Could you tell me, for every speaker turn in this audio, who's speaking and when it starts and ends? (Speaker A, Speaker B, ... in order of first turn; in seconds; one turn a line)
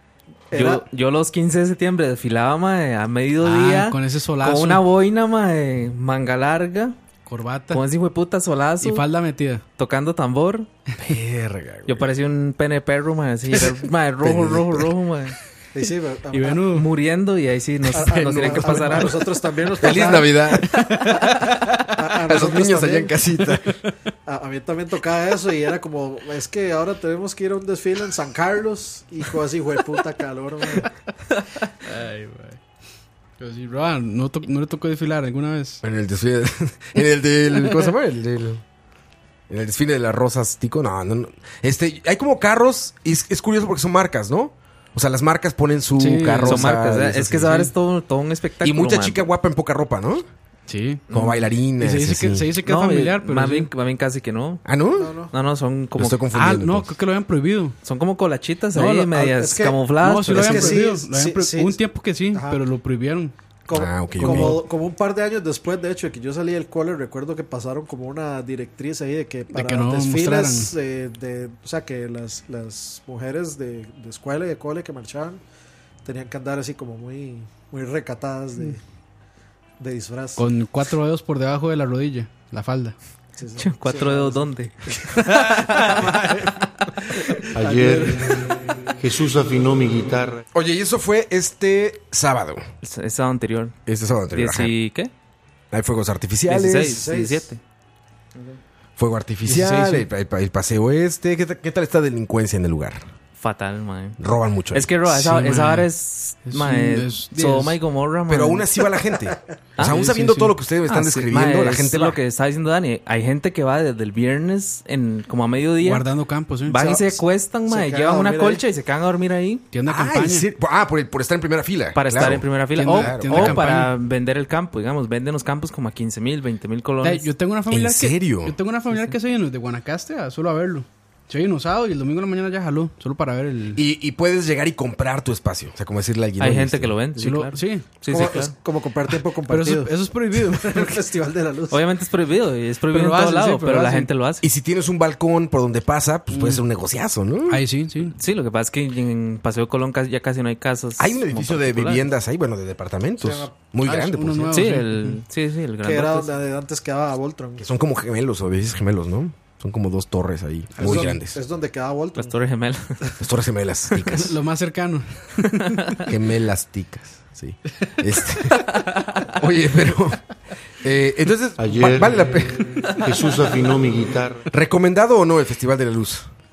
Speaker A: 0.5-0.8
Speaker B: 0.5-7.0
Speaker C: 3.4-4.8
Speaker C: 7.3-7.8
Speaker B: 7.7-9.0
Speaker C: 8.8-9.6
Speaker B: 9.8-10.7
Speaker D: 11.0-12.1
Speaker B: 11.9-15.3
Speaker D: 14.2-14.9
Speaker A: 15.7-16.7
Speaker C: 16.3-16.9
Speaker B: 16.7-19.3
Speaker A: 17.9-20.5
Speaker D: 17.9-20.9
Speaker C: 20.8-21.8
Speaker A: 21.9-23.1
Speaker D: 22.2-23.8
Speaker A: 24.2-30.9
Speaker C: 31.8-32.6
Speaker C: 33.4-35.8
Speaker D: 35.8-38.6
Speaker D: 39.5-47.7
Speaker C: 46.0-46.7
Speaker B: 46.4-49.2
Speaker D: 48.6-50.2
Speaker C: 50.7-51.0
Speaker B: 51.1-51.4
Speaker D: 51.1-52.6
Speaker C: 51.8-53.7
Speaker B: 52.6-54.6
Speaker D: 54.6-55.1
Speaker A: 55.0-55.3
Speaker B: 55.3-56.2
Speaker D: 56.0-56.9
Speaker C: 56.3-57.8
Speaker B: 57.8-60.8
Speaker C: 58.7-59.1
Speaker A: 59.1-61.8
Speaker C: 60.0-63.3
Speaker A: 62.3-62.6
Speaker A: 63.6-75.4
Speaker D: 63.7-64.6
Speaker C: 64.2-64.6
Speaker C: 69.5-70.7
Speaker A: 76.0-78.8
Speaker A: 79.8-80.4
Speaker C: 80.4-82.9
Speaker A: 83.4-85.1
Speaker B: 83.6-86.0
Speaker A: 85.7-86.6
Speaker E: 87.5-88.4
Speaker A: 87.6-88.1
Speaker E: 89.0-90.4
Speaker D: 90.5-92.6
Speaker B: 92.8-93.8
Speaker D: 93.8-94.7
Speaker B: 94.3-95.1
Speaker D: 95.7-97.1
Speaker B: 96.5-97.6
Speaker A: 96.9-97.5
Speaker D: 99.0-103.0
Speaker C: 99.5-100.1
Speaker B: 103.4-104.2
Speaker D: 104.2-105.0
Speaker B: 104.7-108.7
Speaker C: 105.1-105.9
Speaker C: 106.5-107.8
Speaker D: 108.3-112.2
Speaker C: 109.8-110.5
Speaker B: 110.8-116.1
Speaker C: 115.8-116.9
Speaker B: 116.7-119.7
Speaker A: 116.8-118.6
Speaker C: 119.7-120.5
Speaker D: 119.8-123.6
Speaker B: 122.0-127.3
Speaker C: 122.7-123.9
Speaker C: 127.0-133.8
Speaker D: 127.7-128.6
Speaker D: 133.8-136.9
Speaker B: 136.4-138.5
Speaker C: 137.2-137.8
Speaker A: 138.1-141.8
Speaker C: 139.5-141.0
Speaker B: 141.7-144.4
Speaker C: 142.9-144.1
Speaker D: 144.4-147.6
Speaker C: 146.3-146.6
Speaker C: 147.5-148.2
Speaker B: 148.2-152.1
Speaker D: 151.0-154.6
Speaker A: 153.2-153.5
Speaker C: 153.8-155.2
Speaker B: 154.5-156.3
Speaker A: 155.8-157.7
Speaker D: 157.6-161.4
Speaker C: 160.7-161.2
Speaker A: 160.8-162.3
Speaker B: 162.2-163.2
Speaker D: 163.2-164.3
Speaker C: 164.2-166.0
Speaker D: 166.1-168.7
Speaker B: 168.6-169.3
Speaker D: 169.2-170.2
Speaker D: 170.8-172.7
Speaker E: 171.6-174.4
Speaker D: 174.5-176.3